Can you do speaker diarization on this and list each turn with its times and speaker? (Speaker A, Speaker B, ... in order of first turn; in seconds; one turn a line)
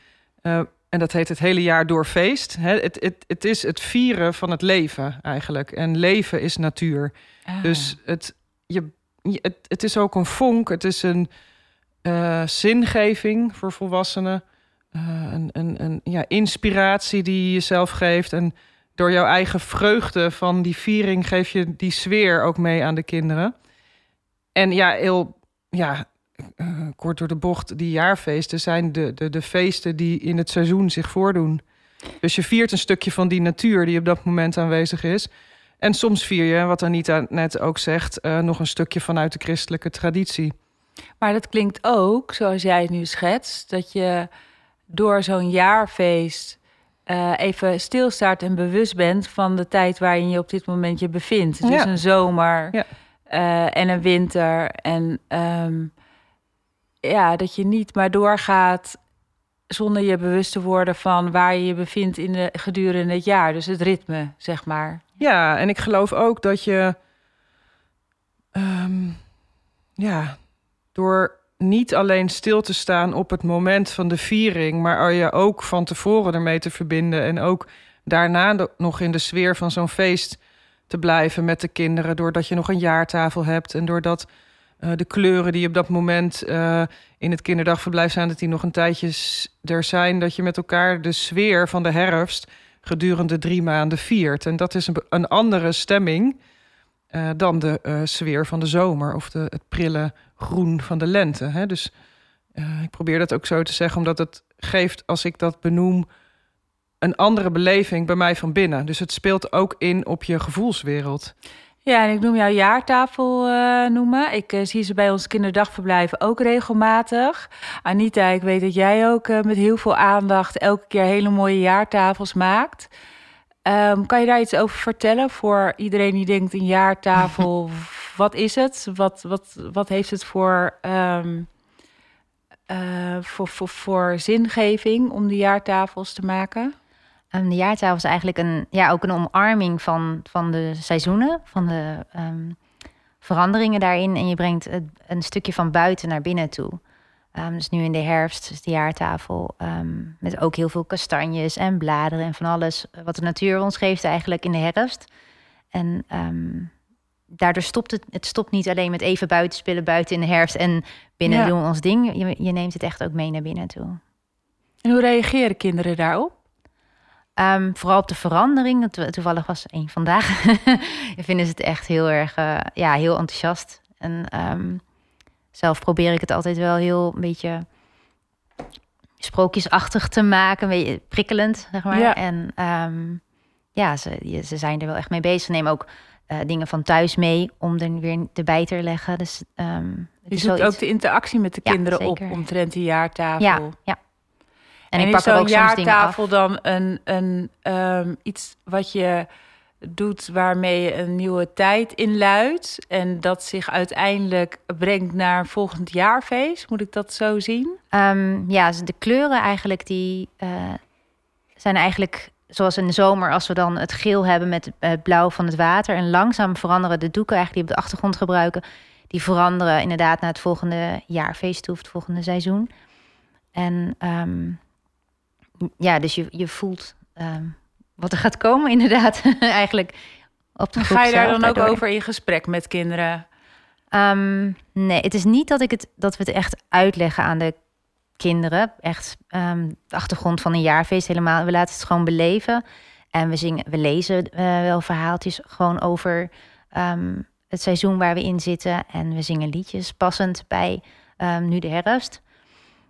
Speaker A: 0.4-11.3
Speaker B: 7.5-8.0
Speaker A: 12.0-23.5
Speaker A: 24.6-31.6
Speaker A: 32.2-35.3
Speaker A: 35.8-40.5
Speaker B: 41.2-44.3
Speaker B: 44.9-52.8
Speaker A: 51.6-51.9
Speaker B: 53.3-55.9
Speaker B: 57.0-59.0
Speaker B: 59.7-65.0
Speaker A: 65.2-67.0
Speaker A: 68.5-69.2
Speaker A: 70.0-70.4
Speaker A: 70.9-84.3
Speaker A: 84.8-96.4
Speaker A: 97.1-101.9
Speaker A: 102.5-106.1
Speaker A: 107.0-111.3
Speaker B: 111.8-122.9
Speaker B: 123.7-131.5
Speaker B: 132.7-136.7
Speaker C: 137.3-142.6
Speaker C: 143.2-146.8
Speaker C: 147.4-155.1
Speaker C: 155.7-156.7
Speaker C: 157.3-164.0
Speaker B: 161.3-161.5
Speaker B: 164.8-166.3
Speaker C: 167.4-174.8
Speaker C: 175.5-177.7
Speaker C: 179.2-183.2
Speaker B: 181.9-182.2
Speaker C: 183.8-190.8
Speaker B: 190.3-193.8
Speaker C: 191.7-192.4
Speaker C: 193.4-194.0
Speaker C: 194.9-196.2
Speaker B: 194.9-199.3
Speaker B: 199.8-207.8
Speaker C: 207.9-210.8
Speaker C: 211.6-222.7
Speaker C: 223.6-224.6
Speaker C: 225.6-230.0
Speaker C: 230.6-231.8
Speaker B: 230.8-233.2
Speaker C: 233.9-237.6
Speaker C: 238.2-242.6
Speaker C: 243.1-252.2